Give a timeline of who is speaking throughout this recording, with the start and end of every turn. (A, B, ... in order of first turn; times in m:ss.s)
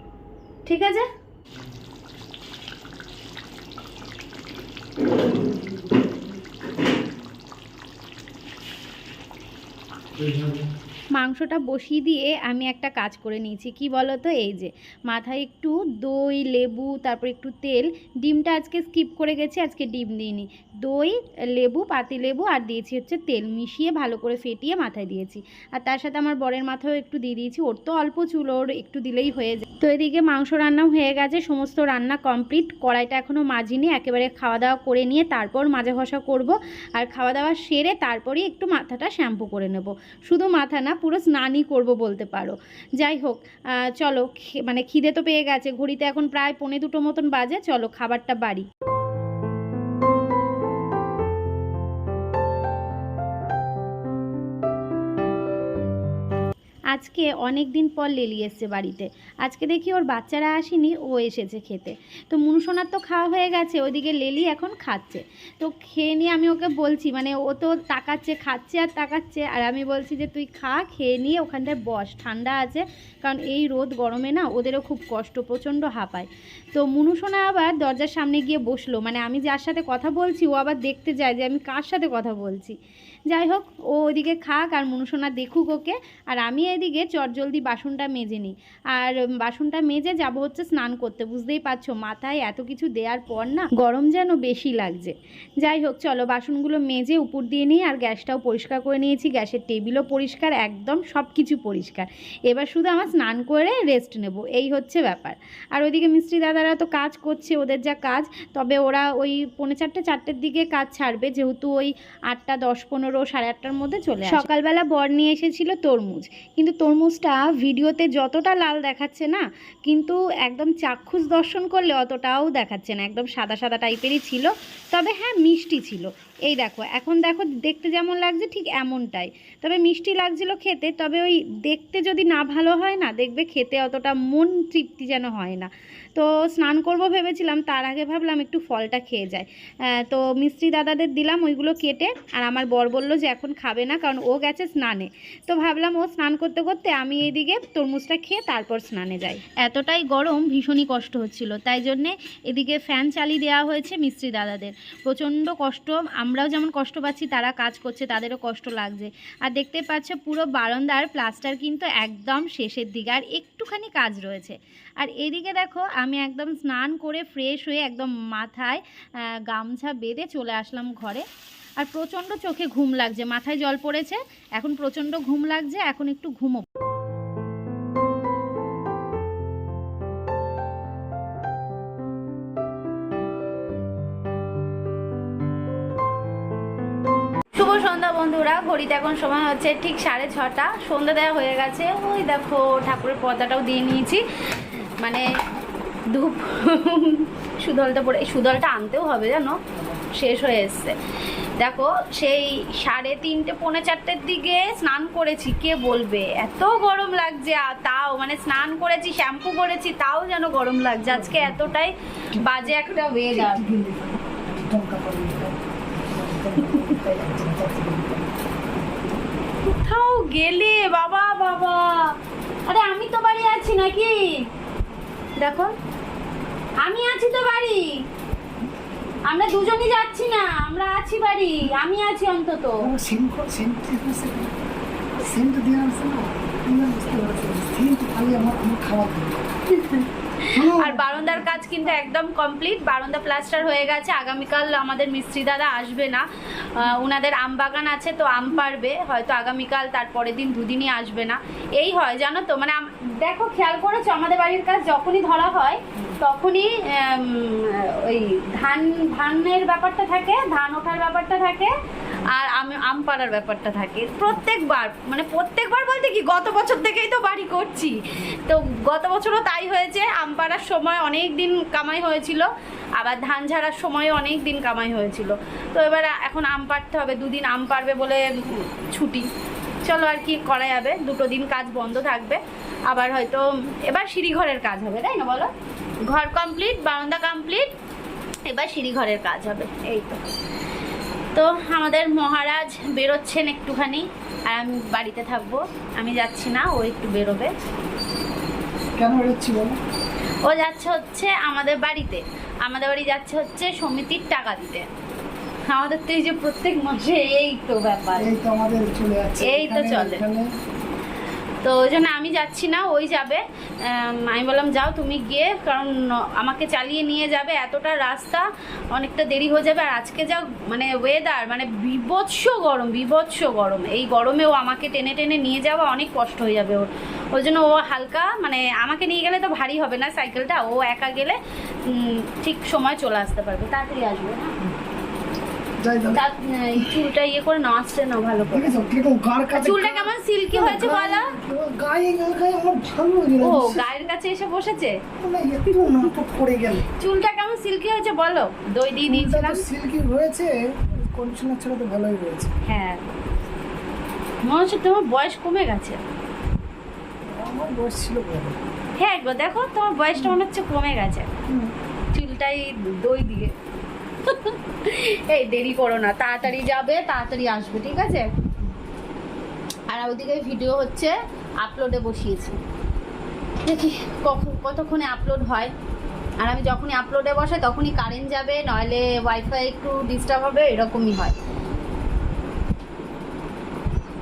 0:00.6-0:01.1 A
0:11.2-0:48.7 A
0:56.9-2:51.2 A
2:51.8-2:56.7 A
3:07.6-3:15.3 A
3:16.1-3:21.0 A
3:21.6-3:33.7 A
3:31.1-3:31.7 B
3:32.3-3:32.7 B
3:33.3-3:38.3 B
3:36.6-3:37.0 A
3:39.6-3:42.1 A
3:42.7-3:44.5 A
3:45.4-3:45.7 A
3:46.8-3:47.9 A
3:49.3-3:52.9 A
3:52.8-3:54.5 B
3:55.2-3:59.4 B
3:59.7-4:39.3 A
4:00.5-4:01.9 B
4:39.8-4:45.5 A
4:46.1-4:47.7 A
4:48.4-4:50.2 A
4:51.3-4:57.5 A
4:59.0-4:59.8 B
5:00.4-5:04.9 A
5:05.7-5:08.3 A
5:08.2-5:10.5 B
5:09.4-5:10.2 A
5:11.6-5:31.4 A
5:31.9-5:34.6 A
5:35.8-5:36.2 B
5:36.1-5:38.8 A
5:38.5-5:43.9 B
5:39.5-5:41.4 A
5:43.4-5:45.0 A
5:45.2-5:46.9 B
5:47.0-5:49.7 A
5:49.1-5:52.5 B
5:52.7-5:53.1 A
5:54.4-5:56.0 A
5:57.3-5:58.6 B
5:59.0-6:01.3 A
6:02.1-6:03.5 A
6:04.2-6:08.3 A
6:09.9-6:12.6 A
6:13.6-6:15.7 A
6:16.4-6:21.4 A